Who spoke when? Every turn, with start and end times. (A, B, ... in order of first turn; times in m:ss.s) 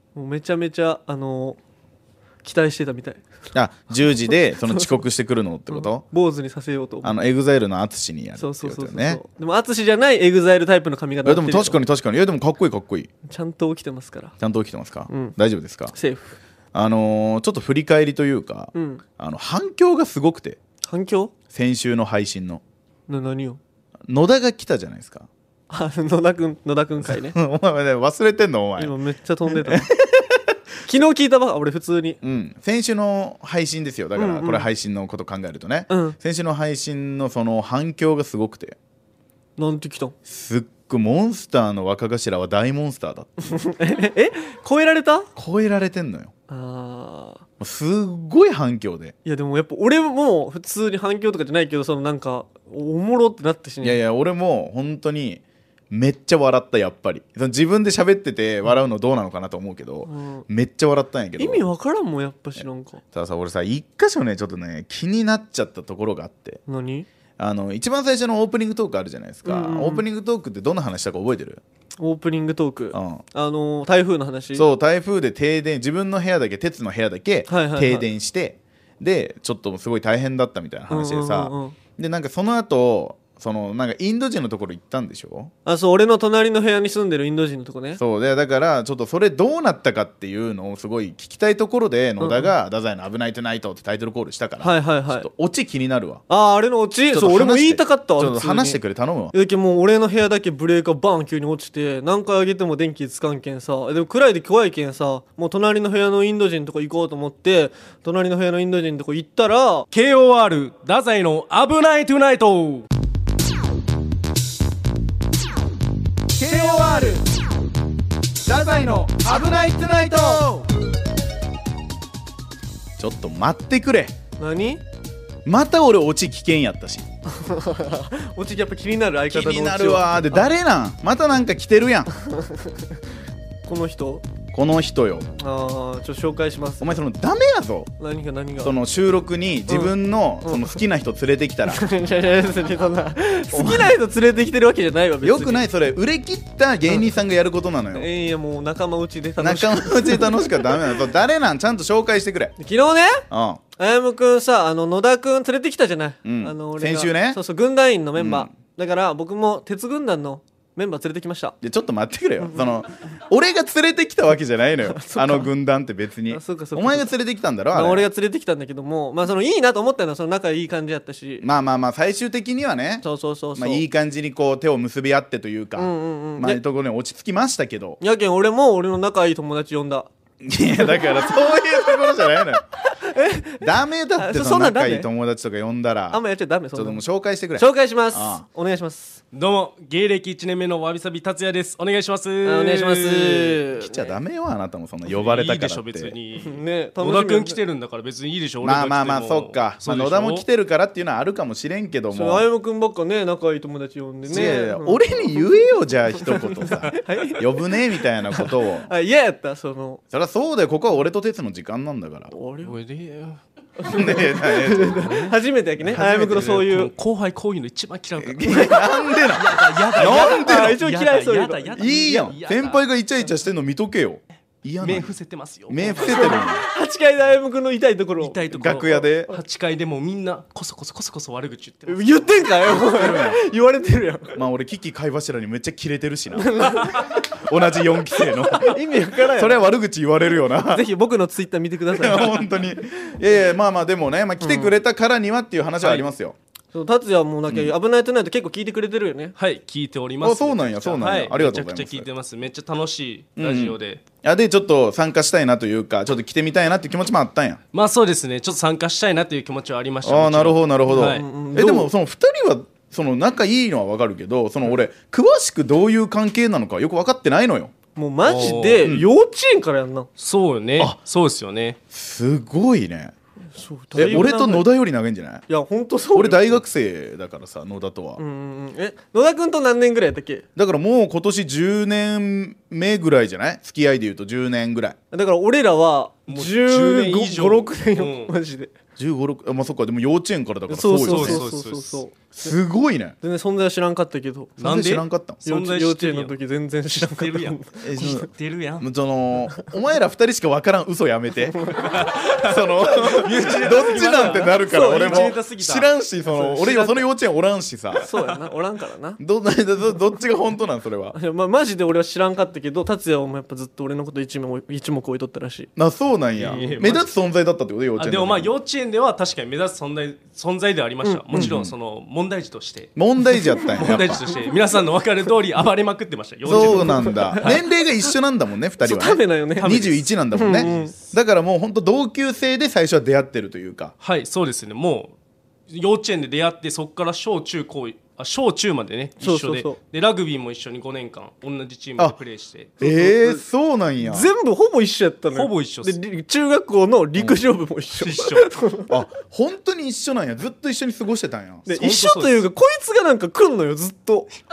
0:00.1-0:01.6 A
0:02.4-0:03.2 A
0:03.5-0:06.0 B
0:04.6-0:04.9 A
0:05.7-0:07.2 A
0:07.0-0:09.2 B
0:08.4-0:11.8 A
0:11.2-0:13.1 B
0:13.3-0:14.3 A
0:14.4-0:15.9 B
0:15.1-0:15.3 A
0:15.9-0:16.4 A
0:16.7-0:20.6 B
0:18.7-0:19.0 A
0:20.8-0:21.3 A
0:21.5-0:22.6 B
0:23.1-0:23.6 A
0:24.1-0:25.3 B
0:25.7-0:27.4 A
0:27.1-0:28.9 B
0:28.8-0:29.9 A
0:29.4-0:30.6 B
0:30.8-0:32.2 A
0:32.2-0:38.8 B
0:34.2-0:34.7 A
0:35.9-0:36.2 A
0:39.6-0:40.1 A
0:40.2-0:43.5 B
0:43.4-0:45.3 A
0:45.4-0:46.3 B
0:46.5-0:47.4 A
0:47.6-0:49.1 B
0:49.2-0:54.0 A
0:53.8-1:01.6 B
1:00.0-1:00.4 A
1:01.4-1:03.0 A
1:02.6-1:06.6 B
1:06.7-1:07.1 A
1:07.4-1:11.6 B
1:09.4-1:10.0 A
1:12.0-1:14.7 A
1:12.9-1:13.2 B
1:14.5-1:25.5 B
1:17.5-1:18.1 A
1:20.9-1:21.8 A
1:25.6-1:28.0 A
1:28.0-1:36.2 B
1:32.2-1:32.5 A
1:34.6-1:35.3 A
1:36.3-1:38.8 A
1:37.1-1:39.3 B
1:39.3-1:49.9 A
1:49.9-1:52.9 C
1:56.4-1:57.2 B
1:58.4-2:00.6 B
2:03.0-2:04.1 B
2:04.4-2:04.8 A
2:05.4-2:07.0 B
2:07.3-2:10.4 A
2:09.3-2:12.1 B
2:12.2-2:12.8 A
2:13.6-2:14.2 A
2:14.5-2:15.2 B
2:15.4-2:17.0 A
2:16.8-2:17.9 B
2:18.0-2:18.8 A
2:18.6-2:21.8 B
2:20.4-2:20.8 A
2:21.7-2:25.6 A
2:23.5-2:24.0 B
2:25.2-2:28.1 B
2:27.9-2:30.7 A
2:29.4-2:32.5 B
2:32.6-2:33.2 A
2:33.3-2:33.6 B
2:33.8-2:41.6 A
2:36.2-2:37.4 B
2:38.2-2:38.5 B
2:41.6-2:48.1 B
2:44.9-2:45.5 A
2:46.3-2:47.1 A
2:47.7-2:51.4 A
2:51.4-2:53.0 B
2:53.0-2:53.8 A
2:53.6-2:58.0 B
2:55.8-2:56.6 A
2:58.0-3:00.1 A
3:00.4-3:02.6 B
3:00.8-3:01.2 A
3:02.8-3:05.1 A
3:03.6-3:06.2 B
3:06.1-3:07.0 A
3:06.7-3:08.4 B
3:07.6-3:09.2 A
3:09.3-3:13.6 C
3:12.4-3:14.2 A
3:13.8-3:16.2 B
3:15.1-3:20.4 C
3:16.4-3:17.6 A
3:18.6-3:22.4 B
3:22.1-3:25.2 A
3:24.3-3:28.9 B
3:26.2-3:27.7 A
3:28.3-3:30.0 A
3:30.1-3:32.3 B
3:32.3-3:32.7 A
3:32.6-3:33.4 C
3:33.8-3:36.9 A
3:33.9-3:35.2 B
3:34.8-3:42.8 C
3:38.2-3:40.8 B
3:40.0-3:42.3 A
3:41.8-3:45.1 B
3:44.8-3:46.5 C
3:45.7-3:46.6 B
3:45.9-3:48.8 A
3:48.2-3:52.4 C
3:48.5-3:49.4 B
3:51.9-3:54.4 A
3:52.6-3:53.4 B
3:54.3-4:00.8 B
3:56.4-3:57.0 A
3:58.5-3:59.6 A
4:00.7-4:02.4 A
4:01.9-4:06.4 B
4:04.4-4:04.7 A
4:05.8-4:06.1 C
4:06.7-4:09.3 A
4:07.5-4:07.7 B
4:09.4-4:14.0 C
4:10.2-4:12.1 B
4:13.4-4:17.6 B
4:17.7-4:21.2 C
4:20.0-4:27.7 B
4:20.8-4:21.9 A
4:27.9-4:30.1 A
4:28.2-4:28.9 C
4:28.8-4:29.1 B
4:30.2-4:31.8 C
4:31.9-4:33.1 B
4:33.6-4:34.7 A
4:33.9-4:35.4 B
4:34.0-4:34.3 C
4:35.5-4:36.6 A
4:36.1-4:38.2 B
4:38.2-4:40.4 A
4:40.6-4:45.0 B
4:45.1-4:48.7 A
4:46.3-4:48.3 C
4:49.0-4:51.4 B
4:50.7-4:52.5 A
4:50.9-4:52.0 C
4:52.3-4:53.1 B
4:53.2-4:54.6 A
4:54.6-4:56.3 C
4:54.6-4:55.4 B
4:55.4-4:58.1 A
4:56.9-4:58.9 C
4:57.8-5:08.0 B
5:01.5-5:02.1 A
5:01.8-5:07.0 C
5:03.1-5:05.3 A
5:08.0-5:09.2 A
5:08.0-5:08.3 C
5:09.2-5:11.2 B
5:11.1-5:15.7 A
5:15.8-5:18.5 B
5:16.4-5:17.0 C
5:16.5-5:17.0 A
5:18.0-5:22.9 C
5:21.0-5:21.5 A
5:21.3-5:21.7 B
5:23.0-5:24.2 B
5:23.7-5:27.6 C
5:24.3-5:24.6 A
5:26.4-5:33.9 B
5:26.5-5:28.0 A
5:28.8-5:29.8 A
5:29.6-5:31.0 C
5:30.3-5:30.9 A
5:34.0-5:35.1 C
5:35.7-5:42.7 C
5:39.2-5:39.8 A
5:42.8-5:44.3 B
5:42.8-5:43.4 A
5:44.0-5:48.9 A
5:45.3-5:46.0 C
5:48.0-5:48.5 C
5:48.9-5:51.7 B
5:51.6-5:54.3 A
5:51.7-5:52.4 C